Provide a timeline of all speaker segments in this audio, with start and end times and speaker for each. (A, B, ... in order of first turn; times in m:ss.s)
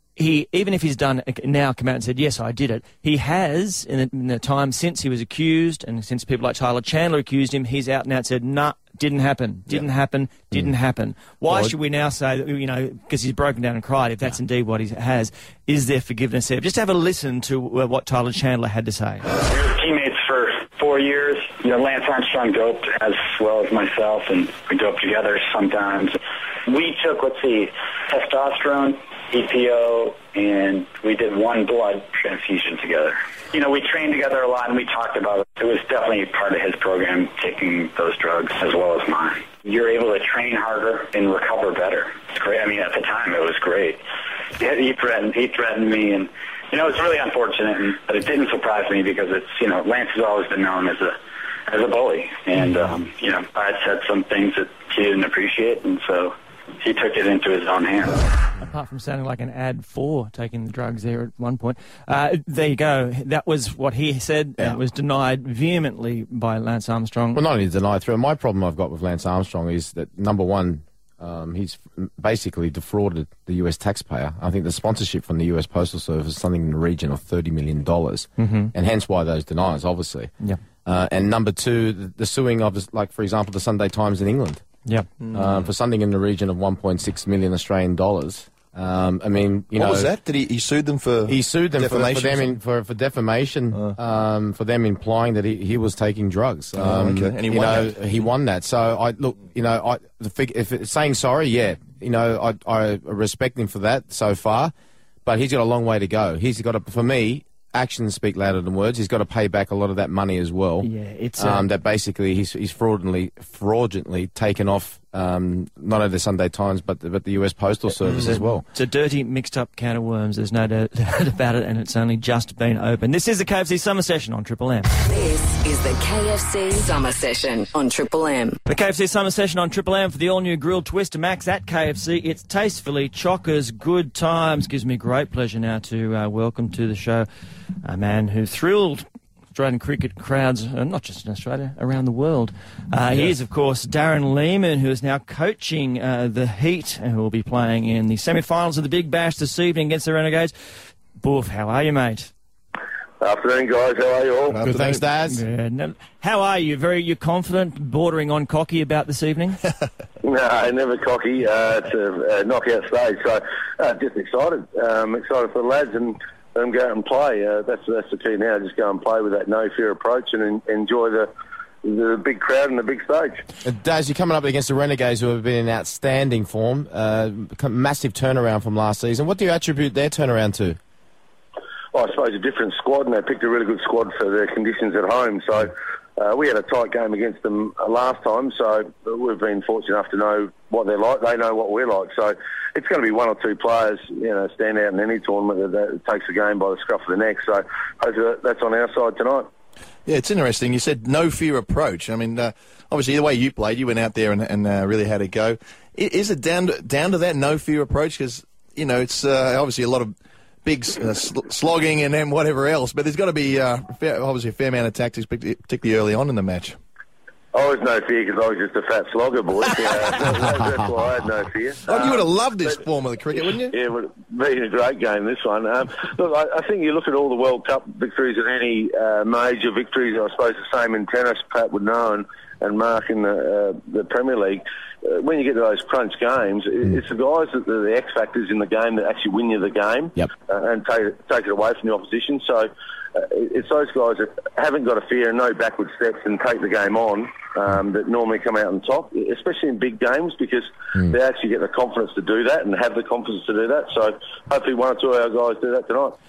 0:00.2-0:19.3 A
0:19.4-0:44.0 B
0:44.6-0:51.2 B
0:51.7-0:58.3 B
0:58.6-1:07.4 A
1:07.3-1:20.3 C
1:18.4-1:18.7 A
1:20.8-1:24.6 C
1:25.2-1:25.6 D
1:25.3-1:30.1 C
1:29.8-1:32.6 D
1:31.3-1:44.7 C
1:36.8-1:38.0 D
1:45.3-1:58.6 C
1:50.8-1:51.7 A
1:58.1-1:58.4 D
1:58.7-2:04.9 A
2:04.9-2:08.6 E
2:08.7-2:17.3 A
2:17.8-2:32.3 A
2:33.2-2:34.6 F
2:34.5-2:35.0 D
2:34.6-2:35.4 C
2:35.3-2:39.6 A
2:40.2-2:51.3 F
2:51.8-2:53.4 F
2:53.6-3:00.8 C
3:01.9-3:19.5 F
3:20.1-3:36.8 D
3:37.5-3:42.8 F
3:41.9-3:43.7 D
3:43.7-4:16.2 F